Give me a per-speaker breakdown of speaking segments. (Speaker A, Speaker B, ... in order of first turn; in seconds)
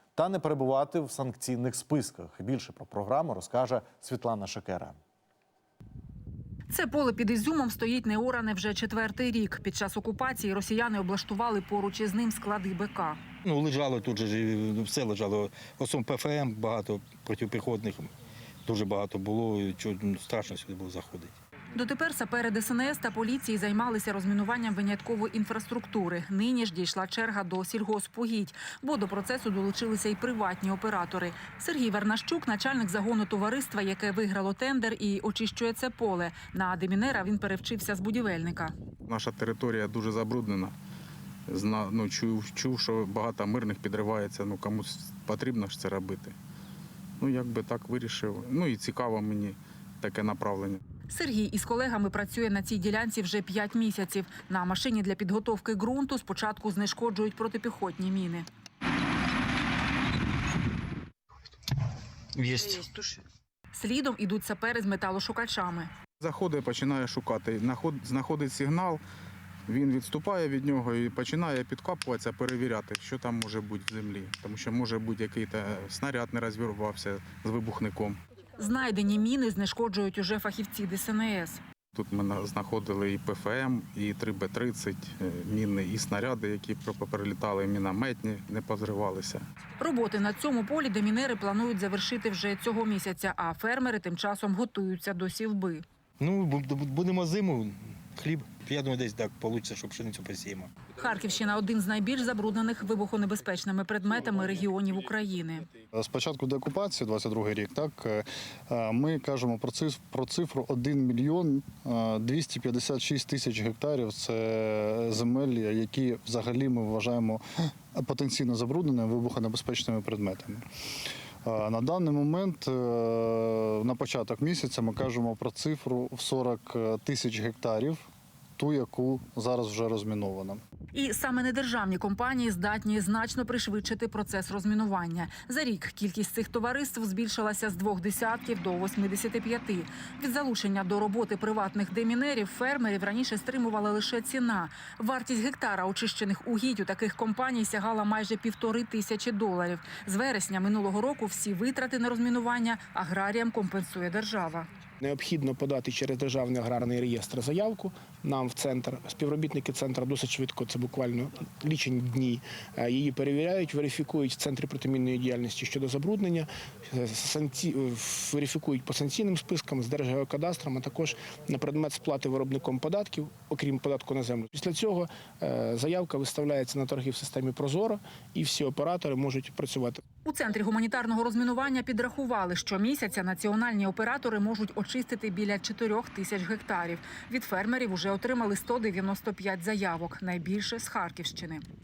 Speaker A: 0.2-5.0
Speaker B: 6.7-13.2, 21.7-38.7, 51.1-58.5, 63.7-65.9, 78.6-81.6, 89.8-95.8, 101.0-105.7, 130.9-154.7, 180.2-191.6
Speaker C: 13.4-18.1, 18.7-21.4, 62.4-63.2, 96.2-100.7
Speaker D: 39.1-40.8, 41.5-46.4, 47.2-50.8, 66.2-69.0, 69.7-78.2, 81.9-89.4
Speaker E: 106.0-120.7, 121.4-130.6
Speaker F: 155.0-180.0